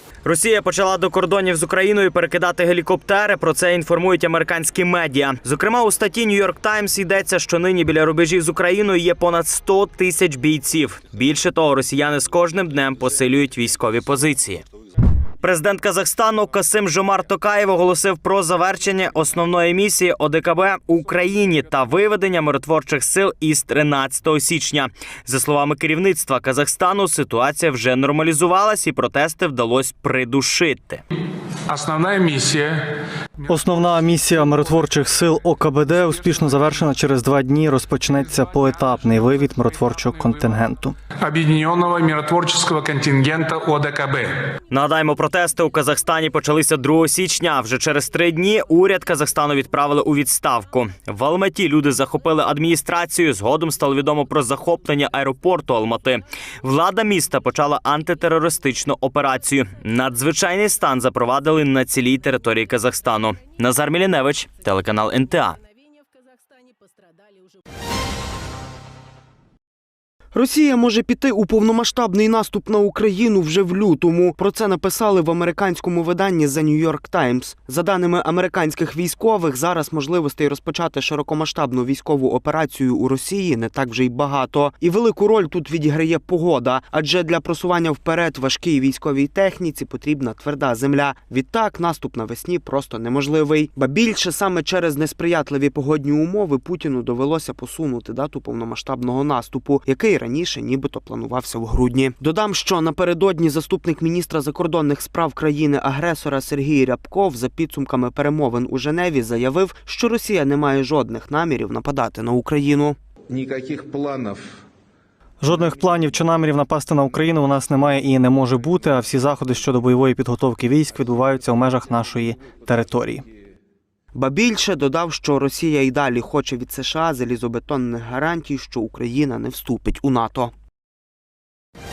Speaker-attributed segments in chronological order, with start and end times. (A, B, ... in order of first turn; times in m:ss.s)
0:00.2-0:14.6 A
0:15.4-0:31.0 A
0:31.7-0:32.8 B
0:33.5-0:41.0 C
0:41.2-0:44.4 B
0:44.7-1:05.6 A
1:10.3-1:53.0 D
1:55.4-2:03.2 C
2:04.1-2:10.5 D